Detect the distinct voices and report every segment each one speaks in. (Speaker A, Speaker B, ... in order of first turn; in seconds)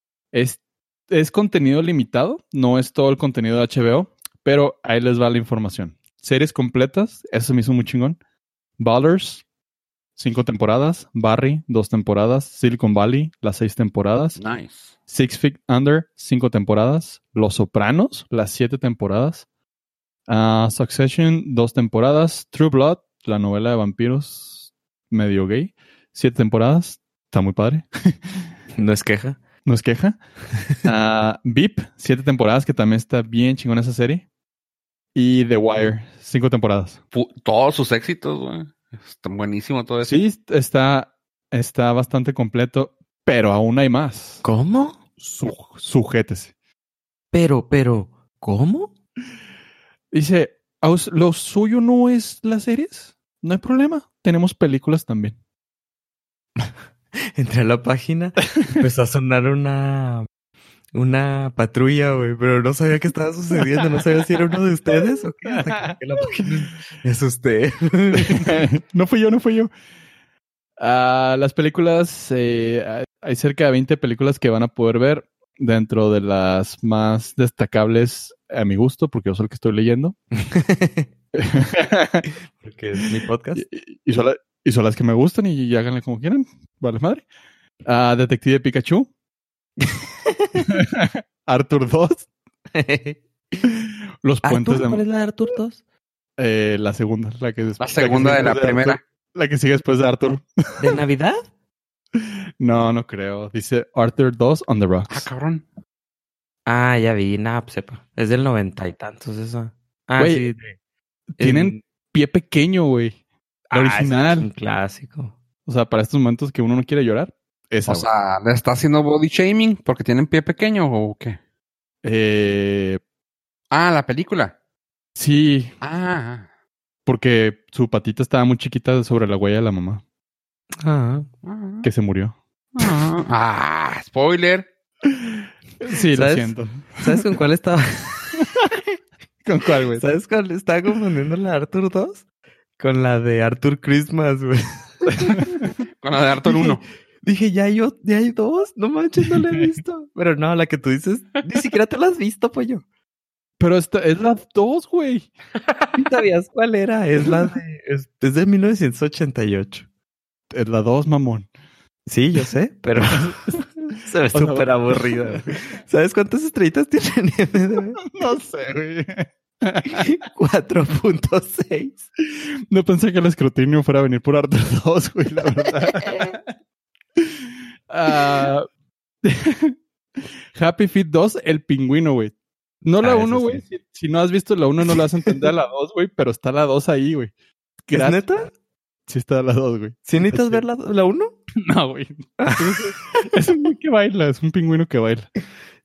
Speaker A: 0.3-8.2, 8.8-9.4, 10.2-14.4, 15.1-19.4, 20.3-28.2, 29.6-30.2, 30.8-34.2, 35.1-37.0, 40.0-44.4, 45.2-46.5, 50.1-55.4, 65.5-65.9, 68.2-69.7, 70.8-80.2, 81.3-82.2, 83.6-87.2, 87.8-89.1, 90.7-92.3, 94.2-95.0, 96.4-101.0, 102.6-105.3, 110.2-110.5, 111.4-113.2, 113.7-114.5, 115.7-118.1, 122.0-123.0, 125.2-125.7, 127.1-130.0, 131.8-133.0, 135.3-137.2, 139.4-140.1, 145.3-145.6, 149.3-149.8, 153.6-155.3, 160.5-161.5, 163.2-163.6, 164.3-165.4, 168.0-170.1, 172.4-176.4, 177.2-178.7, 179.2-187.3, 187.8-188.3, 189.1-190.6, 191.6-195.3
Speaker B: 14.4-14.9, 37.1-40.2, 97.8-99.0, 105.1-105.7, 117.9-121.4, 123.7-124.5, 125.8-126.5, 131.4-131.9, 132.8-134.7, 146.0-146.8
Speaker C: 28.8-29.4, 44.4-45.0, 47.3-48.9, 57.4-60.3, 60.9-68.6, 80.3-81.1, 82.6-83.7, 89.8-90.7, 92.8-93.6, 94.4-95.8, 100.8-101.4, 106.7-110.8, 111.4-111.8, 113.7-115.3, 130.8-131.3, 136.1-138.9, 139.9-142.2, 142.8-145.6, 147.2-152.8, 155.9-159.9, 162.1-168.0, 169.8-172.0, 176.1-176.3, 183.0-183.7, 187.9-188.5, 190.1-191.4, 192.4-193.0